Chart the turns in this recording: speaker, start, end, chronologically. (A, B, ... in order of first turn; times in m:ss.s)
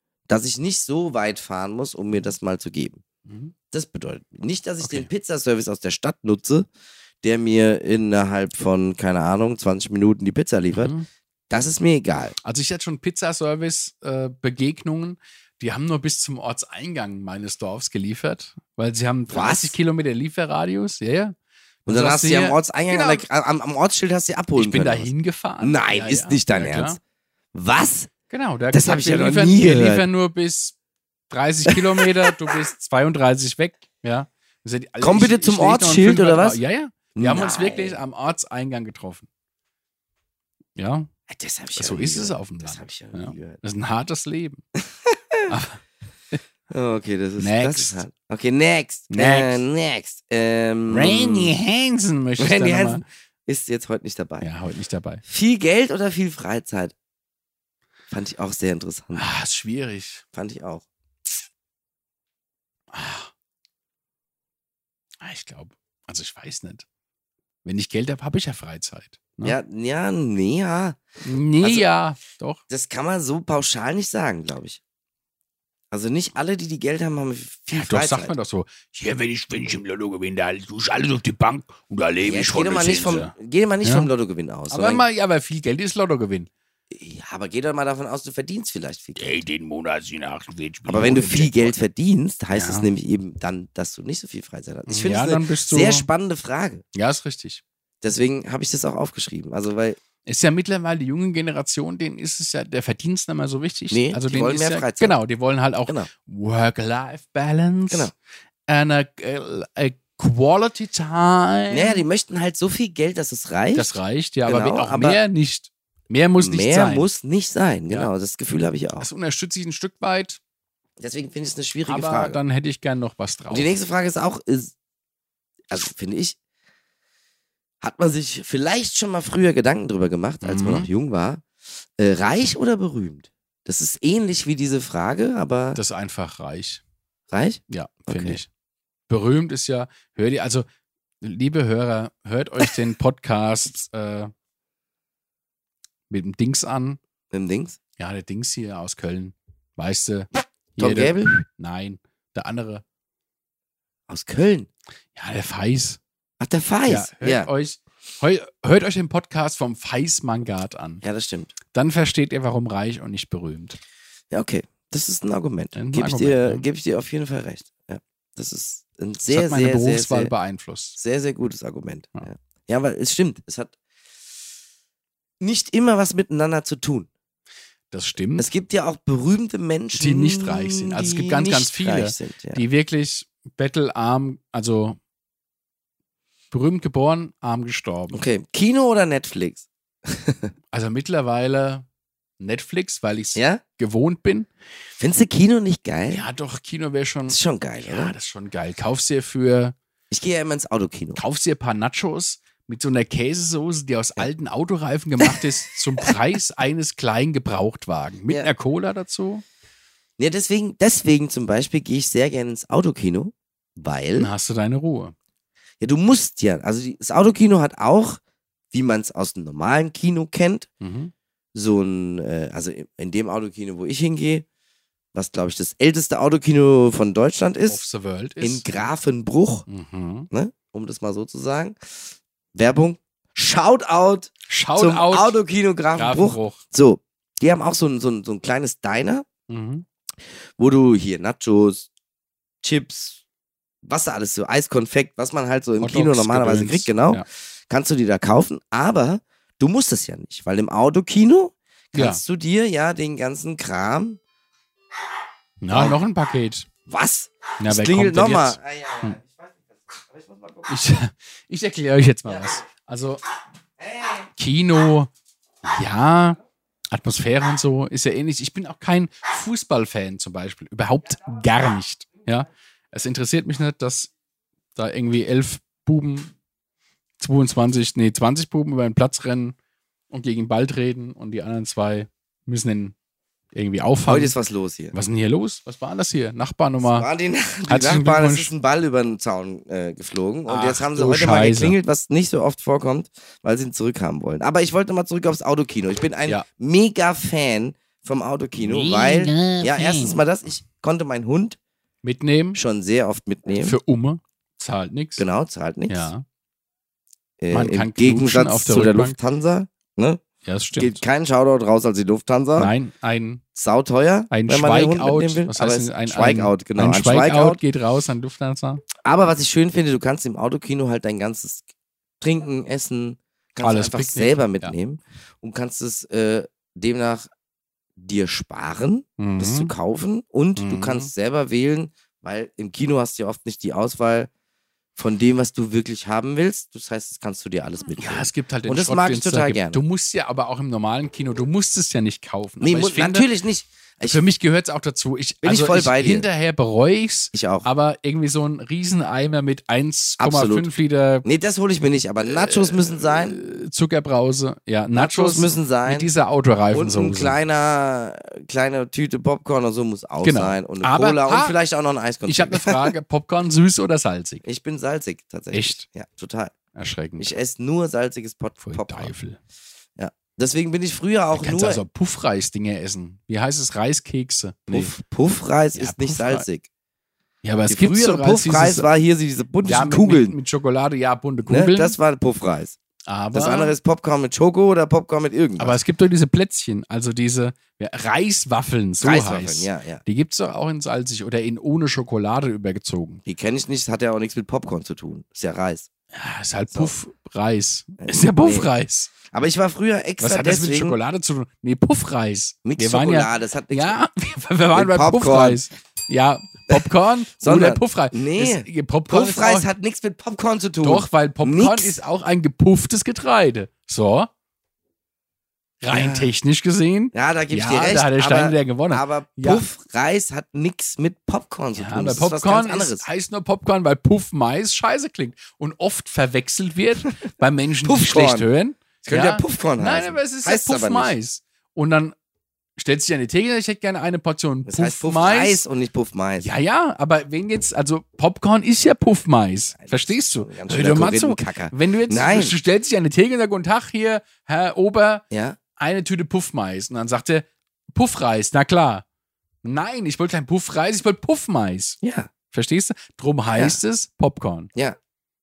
0:00.3-0:03.0 A
0:03.3-0:03.5 B
0:03.7-0:06.7 A
0:04.8-0:05.1 B
0:07.2-0:10.9 A
0:10.7-0:11.1 B
0:11.5-0:12.4 A
0:12.4-0:23.3 B
0:19.3-0:19.8 A
0:21.9-0:25.1 A
0:24.6-0:27.0 B
0:25.6-0:27.0 A
0:27.5-0:28.1 A
0:28.3-0:30.8 B
0:28.7-0:30.1 A
0:31.3-0:39.3 B
0:31.7-0:32.3 A
0:35.0-0:36.6 A
0:37.2-0:38.0 A
0:40.8-0:41.1 B
0:41.3-0:43.6 A
0:41.7-0:44.6 B
0:44.8-0:45.6 A
0:45.5-0:45.8 B
0:46.7-0:51.5 A
0:47.4-0:48.0 B
0:49.1-0:49.6 B
0:50.9-0:53.0 B
0:52.4-0:54.5 A
0:54.4-0:55.2 B
0:55.2-0:56.9 A
0:58.1-0:59.2 A
0:59.1-1:00.2 B
1:00.3-1:00.9 A
1:02.9-1:03.3 B
1:05.2-1:06.9 B
1:07.6-1:09.6 B
1:09.4-1:11.0 A
1:11.2-1:12.6 B
1:11.6-1:11.9 A
1:12.7-1:14.8 A
1:15.9-1:18.3 A
1:17.7-1:24.1 B
1:22.2-1:25.0 A
1:24.7-1:26.5 B
1:26.9-1:29.4 A
1:29.2-1:31.8 B
1:30.9-1:36.8 A
1:32.5-1:32.9 B
1:34.9-1:36.1 B
1:36.9-1:37.6 B
1:38.0-1:40.0 A
1:40.2-1:48.1 B
1:43.9-1:45.2 A
1:48.7-1:52.0 B
1:51.7-1:53.9 A
1:53.7-1:57.1 B
1:54.5-1:55.2 A
1:56.4-1:59.1 A
1:59.0-2:00.4 B
2:01.0-2:02.4 A
2:01.9-2:03.8 B
2:03.5-2:04.7 A
2:05.7-2:06.4 A
2:07.8-2:11.4 A
2:10.4-2:10.9 B
2:12.0-2:15.8 A
2:15.8-2:16.8 B
2:17.3-2:18.4 A
2:17.7-2:18.5 B
2:19.1-2:20.7 B
2:21.2-2:24.3 B
2:26.1-2:27.0 B
2:27.3-2:27.8 A
2:28.0-2:32.8 B
2:30.8-2:31.3 A
2:34.1-2:34.7 A
2:35.2-2:36.0 B
2:36.4-2:37.5 A
2:36.9-2:41.0 B
2:41.0-2:41.5 A
2:41.7-2:43.8 B
2:44.3-2:50.3 A
2:45.8-2:46.6 B
2:49.3-2:51.0 B
2:51.0-2:53.7 A
2:55.4-2:57.1 A
2:57.9-2:58.5 B
2:58.4-3:02.6 A
2:59.9-3:05.0 B
3:06.5-3:08.2 B
3:08.1-3:10.5 A
3:10.7-3:11.9 B
3:12.4-3:14.5 B
3:13.4-3:13.6 A
3:15.0-3:16.2 A
3:16.1-3:19.8 B
3:17.3-3:18.1 A
3:20.1-3:21.2 A
3:21.2-3:29.4 B
3:30.2-3:34.3 A
3:34.2-3:35.2 B
3:35.8-3:38.2 A
3:38.7-3:40.7 A
3:40.8-3:41.1 B
3:41.6-3:44.4 A
3:45.1-3:47.8 A
3:47.7-3:48.9 B
3:48.4-3:49.7 A
3:49.7-3:50.3 B
3:50.3-3:59.3 A
3:54.5-3:55.4 B
3:56.0-3:56.6 B
3:59.5-3:59.9 B
4:00.3-4:01.9 A
4:02.6-4:03.2 A
4:03.8-4:14.2 A
4:05.8-4:07.2 B
4:11.9-4:12.2 B
4:15.6-4:16.7 B
4:15.7-4:16.0 A
4:16.9-4:20.8 A
4:17.6-4:19.2 B
4:20.7-4:23.2 B
4:22.2-4:22.6 A
4:23.8-4:24.3 A
4:24.4-4:25.1 B
4:25.6-4:26.4 B
4:26.9-4:34.1 B
4:34.8-4:36.3 B
4:37.2-4:39.6 B
4:40.1-4:43.0 B
4:43.5-4:44.4 B
4:44.1-4:45.0 A
4:44.9-4:47.1 B
4:46.8-5:01.6 A
4:47.7-4:48.5 B
4:50.5-4:51.8 B
4:58.6-5:00.2 B
5:02.0-5:02.6 B
5:02.6-5:03.8 A
5:03.6-5:05.3 B
5:05.2-5:06.1 A
5:05.9-5:06.2 B
5:07.4-5:10.2 A
5:07.5-5:09.2 B
5:10.4-5:11.0 B
5:10.8-5:12.7 A
5:12.6-5:13.4 B
5:13.6-5:17.6 A
5:14.3-5:18.8 B
5:19.0-5:21.7 A
5:22.2-5:27.3 A
5:23.6-5:24.8 B
5:28.0-5:34.3 A
5:29.2-5:29.7 B
5:30.6-5:31.1 B
5:35.0-5:39.8 A
5:38.0-5:43.3 B
5:42.6-5:44.2 A
5:44.0-5:51.3 B
5:45.4-5:46.3 A
5:47.3-5:47.7 A
5:50.2-5:50.7 A
5:51.2-5:53.4 A
5:52.2-5:57.4 B
5:54.9-5:56.1 A
5:56.7-6:02.9 A
6:00.2-6:01.6 B
6:02.3-6:04.4 B
6:04.4-6:06.5 A
6:05.5-6:05.8 B
6:06.8-6:07.3 B
6:07.2-6:09.1 A
6:08.6-6:09.4 B
6:10.0-6:11.8 A
6:11.3-6:14.9 B
6:14.7-6:16.7 A
6:15.7-6:16.5 B
6:17.4-6:18.9 B
6:17.7-6:20.4 A
6:19.6-6:22.0 B
6:21.5-6:22.8 A
6:23.1-6:23.8 B
6:23.3-6:25.8 A
6:25.6-6:33.2 B
6:29.0-6:30.0 A
6:33.3-6:35.9 A
6:36.1-6:39.1 B
6:38.0-6:38.7 A
6:39.3-6:41.0 A
6:40.2-6:49.7 B
6:42.6-6:44.0 A
6:44.7-6:45.6 A
6:46.7-6:52.0 A
6:50.8-6:54.3 B
6:55.8-6:59.6 B
6:55.9-6:56.3 A
6:57.1-7:03.1 A
7:01.7-7:12.2 B
7:07.8-7:08.5 A
7:09.1-7:11.1 A
7:12.8-7:15.6 B
7:14.7-7:16.5 A
7:16.4-7:25.2 B
7:19.8-7:22.5 A
7:25.3-7:25.6 A
7:25.8-7:29.0 B
7:29.6-7:32.0 B
7:32.0-7:32.3 A
7:32.5-7:34.7 B